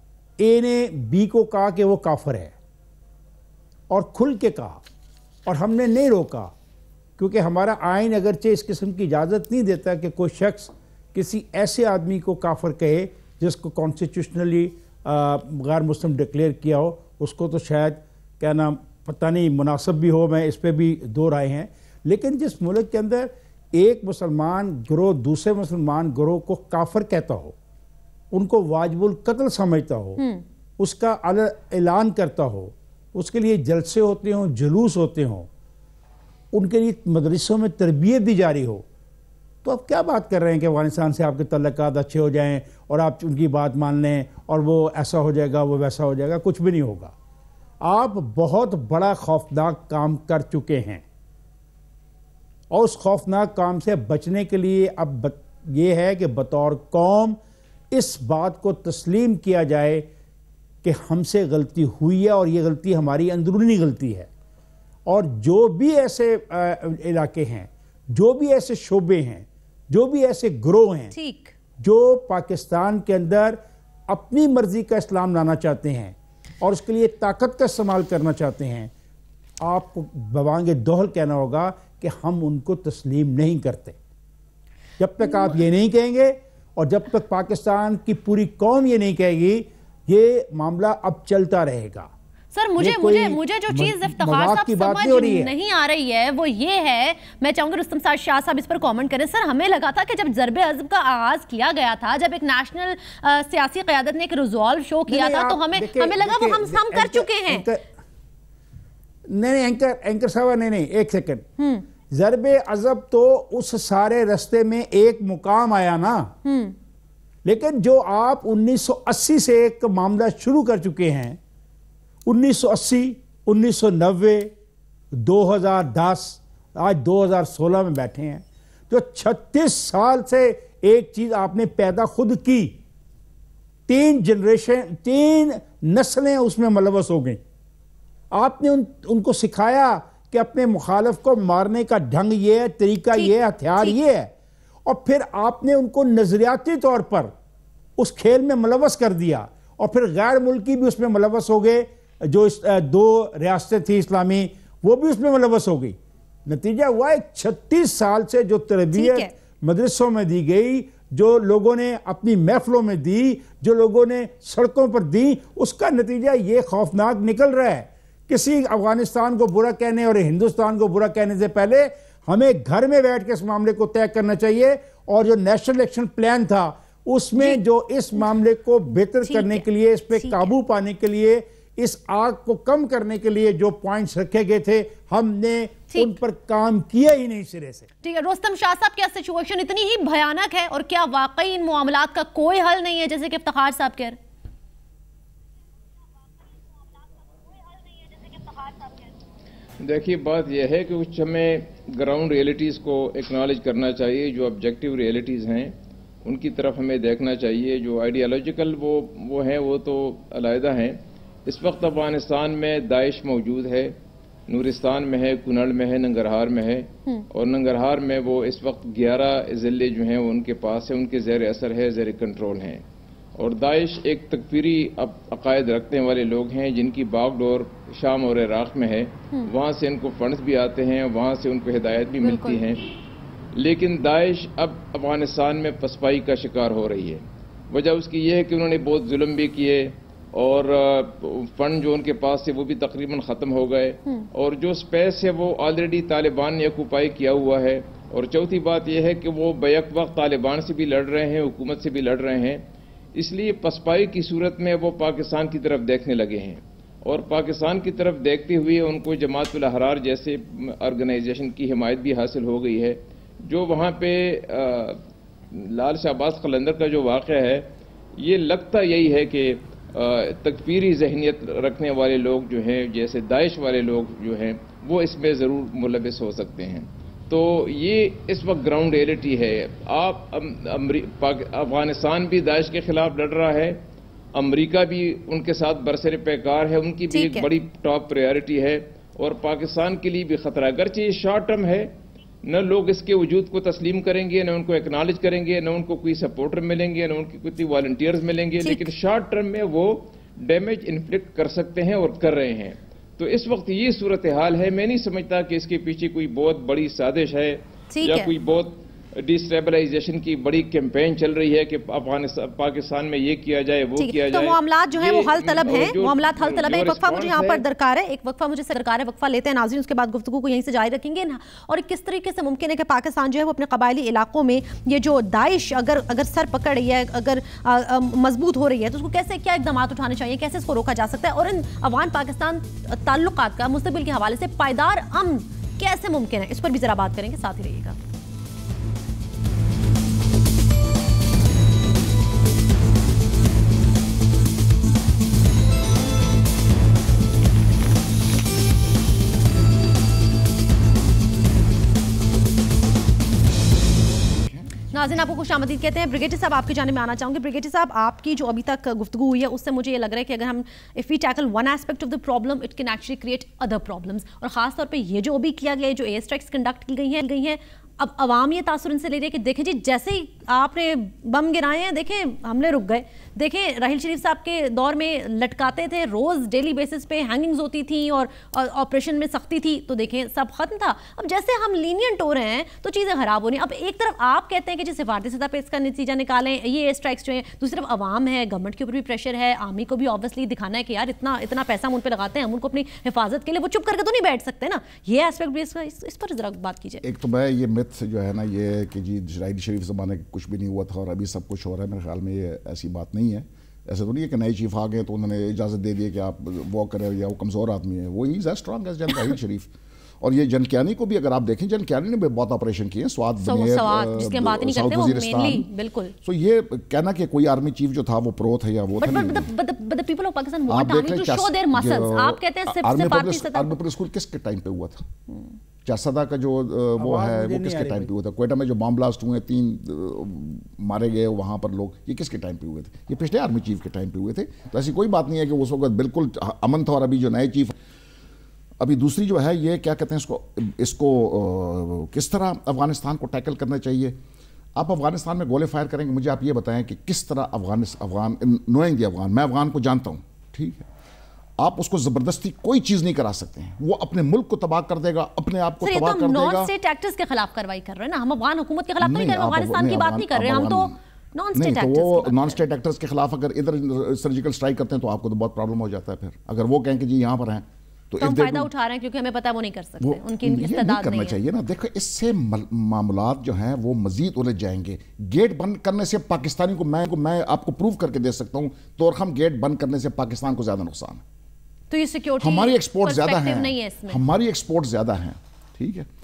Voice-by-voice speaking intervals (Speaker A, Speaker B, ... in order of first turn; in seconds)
Speaker A: 0.4-2.5, 3.9-4.8, 5.5-6.5, 7.2-27.5, 28.3-30.2, 30.8-35.5, 36.5-38.8, 39.6-47.1, 47.8-51.0, 52.7-57.4, 57.9-60.1, 60.8-64.3, 65.1-71.1, 71.8-78.9, 79.6-84.0, 85.0-92.1, 92.8-95.5, 105.1-107.9, 109.3-111.5, 112.1-116.3, 117.4-121.4, 122.2-124.5, 125.1-132.8, 133.9-137.4, 138.3-144.3, 144.8-147.3, 148.0-187.9, 427.0-428.1
Speaker B: 30.2-30.4, 71.1-71.5, 85.2-85.6, 92.5-107.7, 111.6-111.8, 116.4-116.7, 143.1-144.0, 158.9-159.3, 179.2-180.5, 188.0-194.2, 232.2-232.6, 287.1-287.5, 298.6-298.9, 307.9-308.3, 313.9-338.0, 354.9-397.0, 413.4-416.1, 419.0-423.7, 455.8-462.6, 468.2-471.4, 481.9-484.2
Speaker C: 199.8-213.9, 214.5-222.8, 223.4-232.9, 233.5-252.6, 253.2-283.8, 284.3-291.9, 292.4-317.6
Speaker D: 354.4-354.8, 397.0-415.7, 416.2-419.5, 420.7-425.1, 425.8-437.7, 438.8-444.2, 444.7-450.9, 451.6-456.7, 459.0-460.9, 461.5-468.7, 470.0-481.2, 482.4-486.1